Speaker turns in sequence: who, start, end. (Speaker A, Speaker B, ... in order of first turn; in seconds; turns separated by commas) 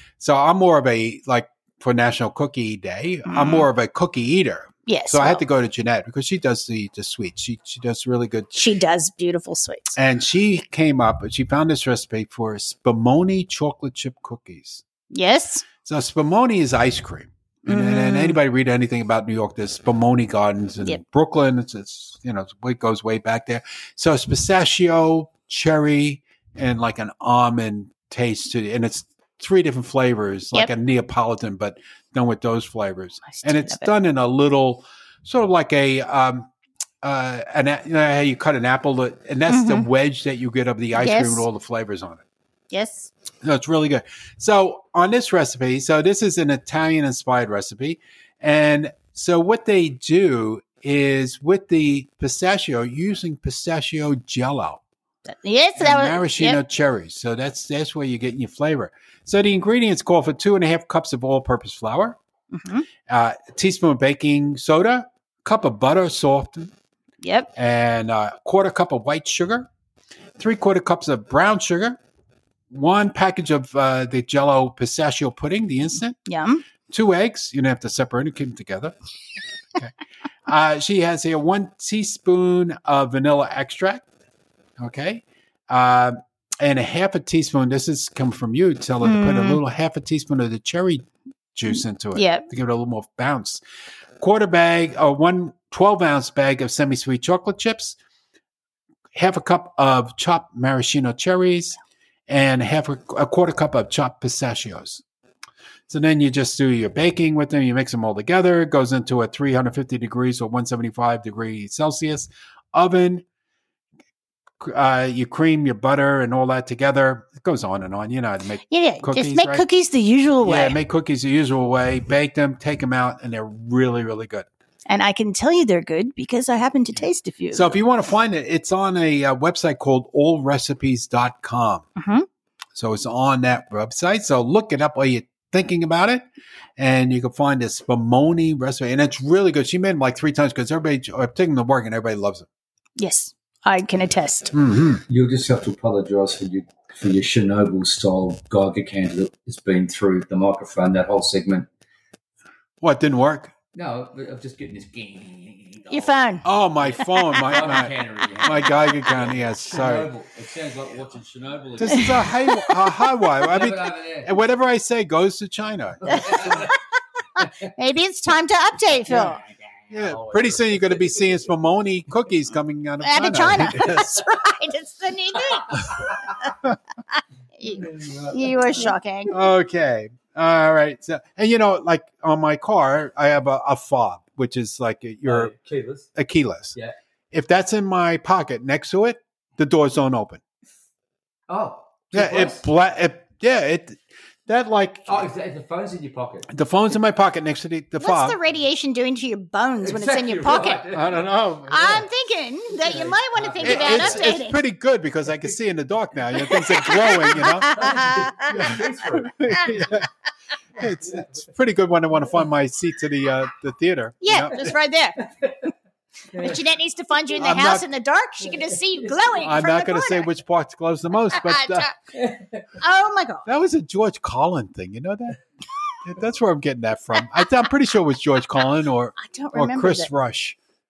Speaker A: 0.2-8.6, Speaker B: 3.3-3.7, Speaker B: 4.8-5.4, Speaker B: 8.5-9.9, Speaker A: 9.9-14.8, Speaker B: 15.1-15.7, Speaker A: 15.8-36.5, Speaker B: 17.6-18.4, Speaker B: 33.3-33.9, Speaker A: 37.0-42.2, Speaker B: 39.5-39.9, Speaker B: 40.9-41.5, Speaker B: 42.7-43.1, Speaker A: 43.4-54.8, Speaker B: 55.2-56.6, Speaker A: 55.8-62.2, Speaker B: 62.5-62.9, Speaker A: 63.0-66.7, Speaker B: 67.2-67.5, Speaker A: 67.5-69.7, Speaker A: 70.4-72.0, Speaker A: 72.7-76.2, Speaker B: 76.3-76.6, Speaker A: 76.9-78.9, Speaker A: 80.5-84.0, Speaker A: 84.8-93.6, Speaker B: 89.0-89.6, Speaker B: 92.1-92.4, Speaker A: 94.2-98.0, Speaker A: 99.1-105.0, Speaker A: 105.9-113.2, Speaker A: 114.6-119.6, Speaker B: 118.7-120.8, Speaker A: 120.4-124.5, Speaker B: 124.9-127.8, Speaker A: 127.5-131.8, Speaker B: 131.9-132.2, Speaker A: 132.7-136.2, Speaker A: 136.8-142.5, Speaker B: 143.0-144.5, Speaker A: 144.5-145.0, Speaker C: 145.1-151.7, Speaker A: 152.8-153.5, Speaker C: 153.7-156.1, Speaker B: 155.9-156.4, Speaker A: 156.4-160.1, Speaker C: 156.8-162.3, Speaker A: 161.8-166.6, Speaker B: 162.0-162.8, Speaker C: 163.4-164.3, Speaker C: 166.1-166.7, Speaker B: 166.1-166.7, Speaker B: 167.4-169.4, Speaker C: 169.0-171.5, Speaker A: 169.9-174.2, Speaker B: 173.0-176.5, Speaker C: 175.5-176.4, Speaker B: 177.1-179.3, Speaker C: 177.6-178.9, Speaker A: 179.3-185.5, Speaker C: 185.2-186.1, Speaker A: 186.1-186.7, Speaker A: 187.3-190.4, Speaker C: 191.5-192.7, Speaker A: 192.1-195.2, Speaker C: 195.1-196.5, Speaker A: 196.5-198.4, Speaker B: 198.0-200.8, Speaker C: 199.8-201.2, Speaker A: 200.9-202.0, Speaker B: 201.7-204.6, Speaker C: 202.8-204.4, Speaker A: 203.6-210.1, Speaker B: 206.4-208.8, Speaker C: 207.4-209.4, Speaker B: 209.5-209.8, Speaker A: 210.8-214.7, Speaker C: 210.8-211.3, Speaker B: 214.2-215.2, Speaker C: 215.2-215.7, Speaker C: 216.3-216.6, Speaker B: 216.3-220.2, Speaker A: 217.4-217.8, Speaker C: 218.4-219.5, Speaker A: 219.4-221.9, Speaker B: 221.3-221.9, Speaker C: 222.1-222.7, Speaker B: 222.8-223.4, Speaker A: 223.4-225.4, Speaker A: 226.0-230.6, Speaker B: 229.2-230.1